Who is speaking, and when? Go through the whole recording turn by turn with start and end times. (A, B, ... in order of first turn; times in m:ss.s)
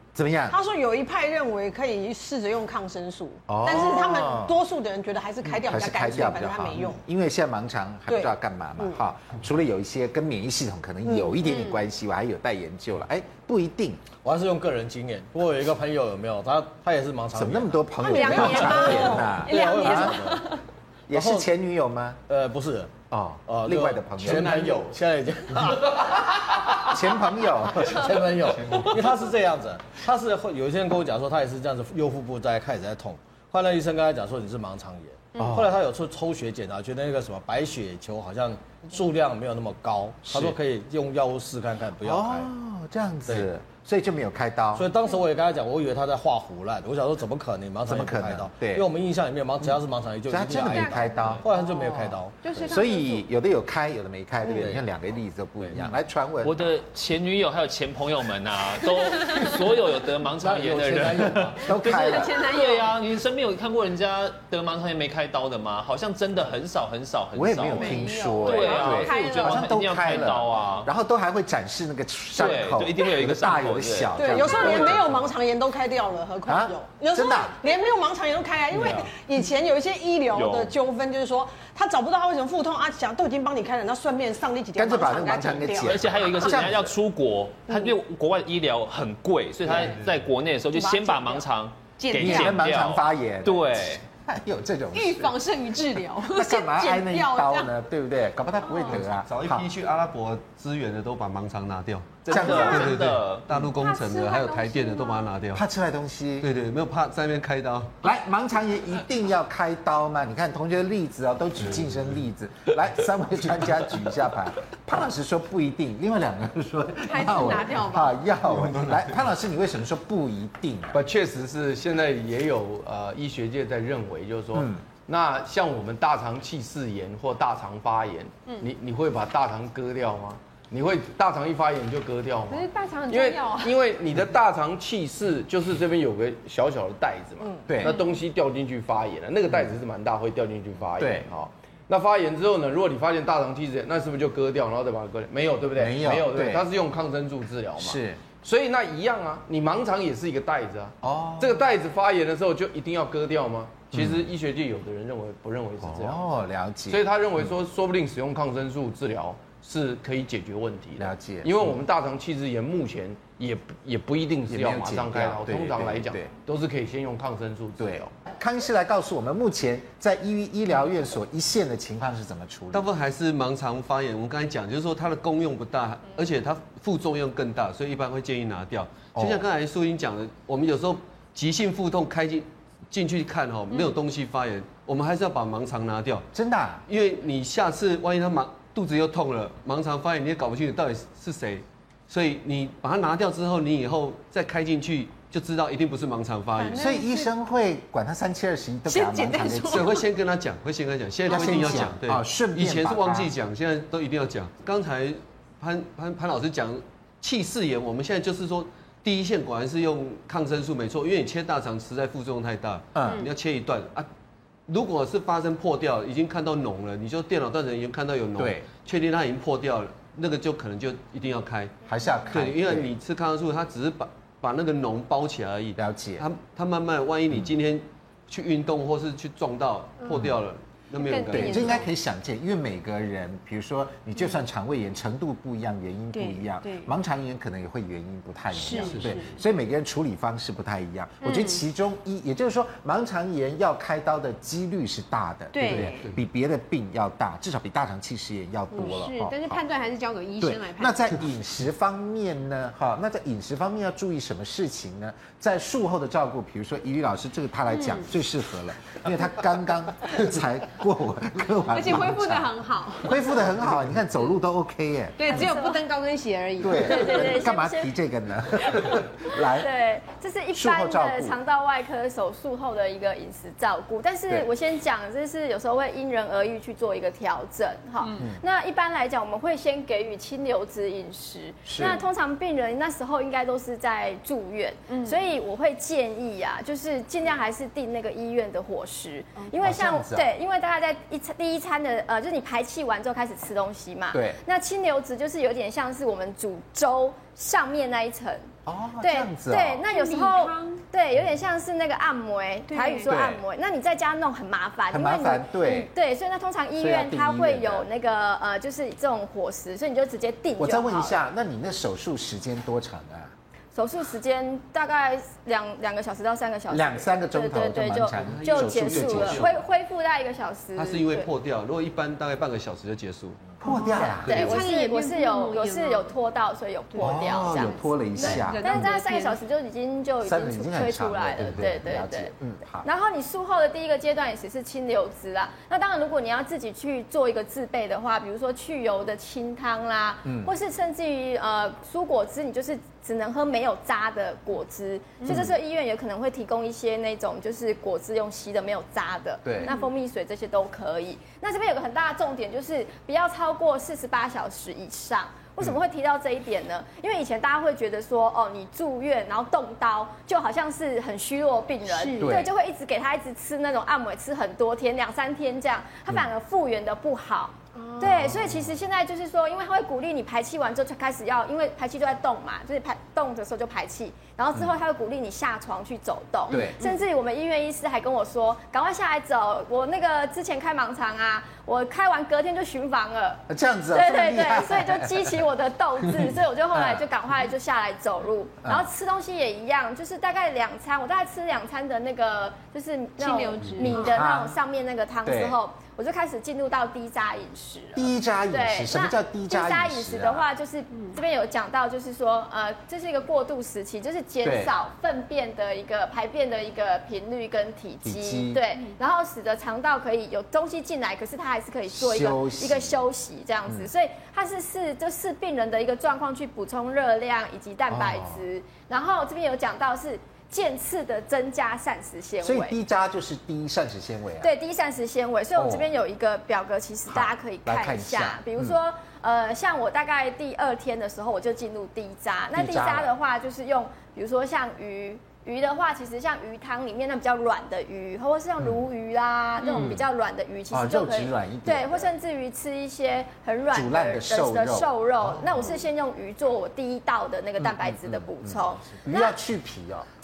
0:00.1-0:00.6 A
0:00.5-0:07.0 B
0:03.5-0:04.5 A
0:05.4-0:14.1 A
0:08.1-0:09.0 B
0:11.0-0:11.4 B
0:11.4-0:11.8 C
0:14.1-0:20.4 D
0:17.3-0:20.1 A
0:18.0-0:20.6 C
0:21.1-0:22.2 A
0:21.1-0:21.5 D
0:22.3-0:26.8 D
0:23.1-0:24.6 A
0:24.2-0:25.0 E
0:26.9-0:28.3 A
0:27.6-0:42.5 D
0:35.4-0:35.8 A
0:40.2-0:40.6 A
0:42.0-0:44.9 A
0:44.7-0:52.4 D
0:47.8-0:48.9 A
0:50.3-0:51.4 A
0:50.6-0:53.3 C
0:52.6-0:56.7 A
0:54.4-0:54.8 D
0:56.4-1:10.9 F
0:59.1-0:59.5 C
1:00.4-1:01.6 D
1:01.6-1:02.4 A
1:01.7-1:03.0 C
1:07.3-1:15.1 A
1:07.6-1:10.0 C
1:12.3-1:15.2 F
1:14.1-1:26.5 B
1:14.4-1:14.8 C
1:16.4-1:17.6 A
1:18.7-1:19.1 A
1:20.3-1:20.7 F
1:24.8-1:26.9 A
1:25.8-1:34.0 F
1:27.7-1:27.9 B
1:29.6-1:30.2 G
1:30.7-1:31.4 C
1:32.0-1:32.6 C
1:32.1-1:35.4 A
1:34.9-1:37.8 C
1:36.2-1:39.6 A
1:38.6-1:39.0 C
1:38.8-1:45.6 G
1:42.2-1:43.5 F
1:42.3-1:43.1 A
1:42.4-1:42.9 C
1:43.6-1:45.3 C
1:45.5-1:46.5 A
1:46.4-1:47.9 G
1:48.0-2:01.0 A
1:57.1-1:58.2 C
1:58.5-1:59.0 G
2:00.9-2:36.2 E
2:04.5-2:04.8 A
2:12.5-2:13.8 C
2:17.7-2:17.9 A
2:17.8-2:18.2 C
2:21.0-2:21.3 A
2:25.8-2:26.6 A
2:27.8-2:28.2 A
2:31.0-2:31.6 A
2:33.9-2:34.3 A
2:35.8-2:37.4 A
2:36.9-2:48.1 E
2:41.0-2:41.6 A
2:44.5-2:46.3 A
2:47.8-2:52.9 A
2:52.7-3:06.3 G
2:59.2-2:59.4 A
3:06.3-3:06.8 A
3:06.9-3:16.9 G
3:16.5-3:17.3 C
3:16.7-3:19.9 A
3:18.9-3:20.0 C
3:19.7-3:34.1 G
3:21.3-3:23.3 A
3:21.3-3:21.9 C
3:32.9-3:33.2 A
3:34.7-3:41.7 G
3:38.4-3:38.6 A
3:41.8-3:42.9 A
3:42.3-3:51.8 G
3:45.8-3:46.2 A
3:50.0-3:50.3 C
3:50.9-3:51.9 C
3:51.3-4:09.6 A
3:56.1-3:56.9 C
3:58.5-3:59.4 C
3:58.8-3:59.2 G
4:01.2-4:01.6 C
4:05.5-4:06.1 C
4:05.6-4:06.2 G
4:08.7-4:11.2 C
4:10.4-4:22.5 A
4:17.7-4:18.1 C
4:21.7-4:23.2 C
4:23.0-4:25.5 A
4:25.2-4:27.4 C
4:25.3-4:25.8 H
4:26.6-4:29.7 A
4:26.7-4:27.9 H
4:29.5-4:58.5 H
4:30.5-4:31.4 A
4:41.6-4:42.0 A
4:44.9-4:45.2 C
4:49.6-4:50.3 A
4:54.1-4:54.4 A
4:58.6-4:59.8 A
4:59.0-5:11.2 H
4:59.8-5:00.8 C
5:02.7-5:03.1 C
5:03.0-5:03.4 A
5:04.9-5:05.9 A
5:06.8-5:07.8 A
5:10.6-5:13.3 A
5:13.7-5:21.3 H
5:16.7-5:19.5 A
5:18.1-5:19.6 G
5:20.8-5:23.5 G
5:23.6-5:24.6 A
5:23.7-5:26.1 C
5:23.7-5:32.3 H
5:24.3-5:24.6 G
5:26.9-5:29.4 C
5:27.0-5:28.9 A
5:30.2-5:32.8 A
5:32.8-7:02.8 H
5:40.2-5:40.5 A
5:45.2-5:45.5 A
5:49.4-5:49.7 A
5:49.6-5:49.9 C
6:01.8-6:02.4 C
6:02.2-6:02.5 A
6:07.7-6:08.3 C
6:08.0-6:08.7 A
6:16.5-6:16.8 A
6:16.5-6:17.0 C
6:23.5-6:25.3 A
6:26.7-6:27.0 A
6:33.2-6:34.2 C
6:33.8-6:34.6 A
6:35.2-6:35.6 A
6:38.0-6:40.4 A
6:44.4-6:44.7 A
6:48.0-6:48.6 A
6:51.9-6:53.0 A
6:57.9-6:58.4 A
7:02.4-7:04.5 A
7:04.4-7:29.4 H
7:05.6-7:05.9 A
7:07.1-7:08.8 A
7:12.5-7:13.1 A
7:19.6-7:19.9 C
7:19.7-7:20.0 A
7:20.7-7:22.1 A
7:23.7-7:25.6 A
7:27.6-7:30.1 A